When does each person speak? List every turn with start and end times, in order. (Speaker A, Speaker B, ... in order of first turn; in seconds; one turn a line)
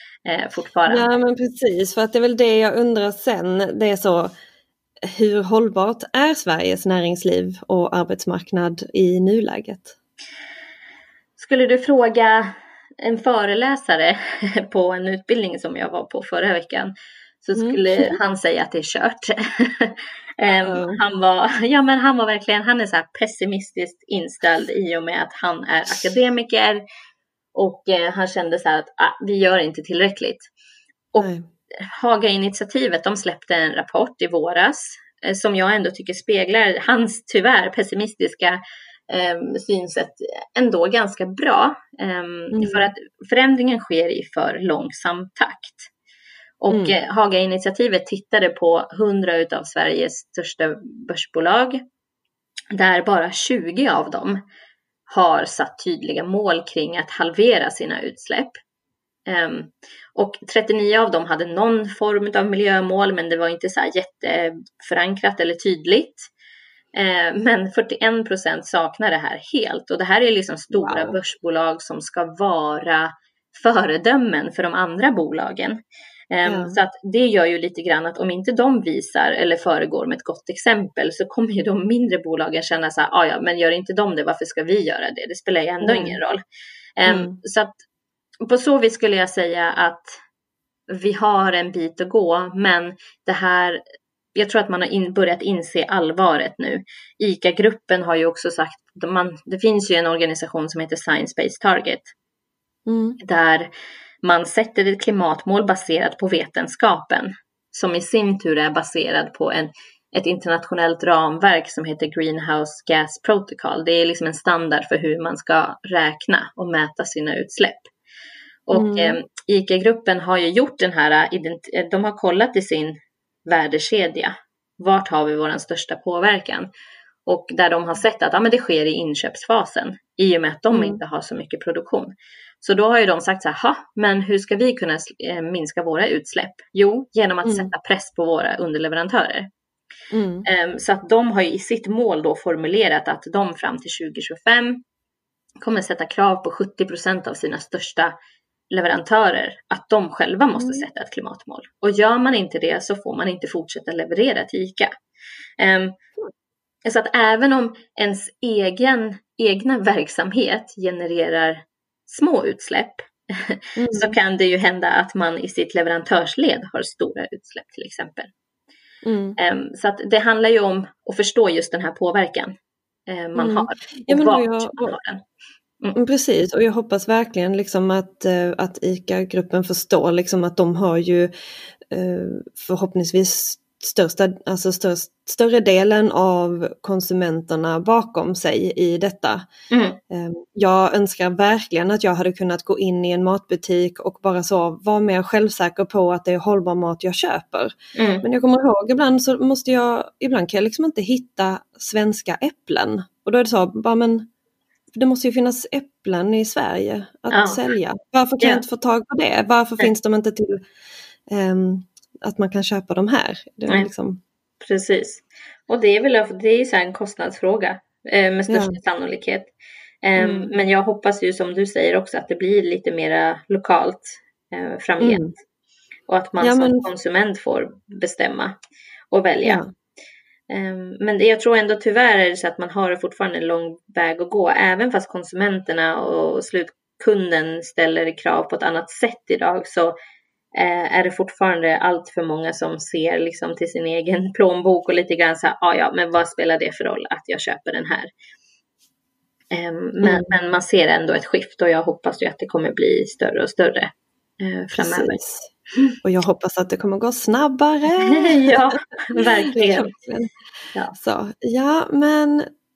Speaker A: 0.2-1.1
Speaker B: 0.9-4.3
Speaker B: 5.0-10.0
Speaker A: 11.4-26.8
Speaker B: 17.6-18.2
Speaker B: 20.7-21.0
Speaker A: 27.6-30.5
Speaker B: 31.2-31.4
Speaker A: 31.8-45.9
Speaker B: 42.5-42.9
Speaker A: 46.6-51.8
Speaker A: 52.7-54.4
Speaker A: 55.1-58.6
Speaker A: 59.3-66.3
Speaker A: 66.9-75.8
Speaker B: 70.7-71.2
Speaker A: 76.3-86.4
Speaker B: 76.5-76.8
Speaker B: 85.8-86.2
Speaker A: 87.0-87.8
Speaker B: 87.1-87.3
Speaker A: 88.5-90.2
Speaker A: 90.9-93.8
Speaker A: 94.3-102.1
Speaker B: 102.9-103.2
Speaker A: 103.2-103.7
Speaker A: 104.2-117.9
Speaker A: 118.7-123.0
Speaker B: 118.7-119.2
Speaker A: 123.5-126.7
Speaker A: 127.3-139.5
Speaker B: 130.7-131.0
Speaker B: 140.1-140.5
Speaker A: 140.4-144.8
Speaker A: 145.6-148.2
Speaker A: 148.7-154.9
Speaker B: 150.6-150.9
Speaker A: 155.6-155.9
Speaker A: 156.9-168.3
Speaker B: 163.8-164.1
Speaker B: 169.0-169.4
Speaker A: 169.4-172.5
Speaker A: 173.1-175.2
Speaker B: 173.4-174.9
Speaker B: 175.9-181.3
Speaker B: 181.9-189.5
Speaker A: 189.7-190.0
Speaker B: 190.1-204.3
Speaker A: 198.0-198.2
Speaker B: 204.9-210.6
Speaker A: 207.3-207.6
Speaker B: 211.3-214.2
Speaker A: 214.6-219.5
Speaker B: 218.5-218.8
Speaker A: 220.0-225.3
Speaker B: 220.2-220.5
Speaker B: 225.0-225.3
Speaker A: 226.1-228.6
Speaker B: 226.4-226.9
Speaker A: 229.1-229.6
Speaker A: 230.5-239.9
Speaker A: 240.6-248.1
Speaker A: 249.5-255.2
Speaker B: 250.0-250.3
Speaker B: 254.8-255.5
Speaker B: 256.0-258.6
Speaker A: 258.0-259.9
Speaker B: 259.1-260.3
Speaker B: 260.9-262.5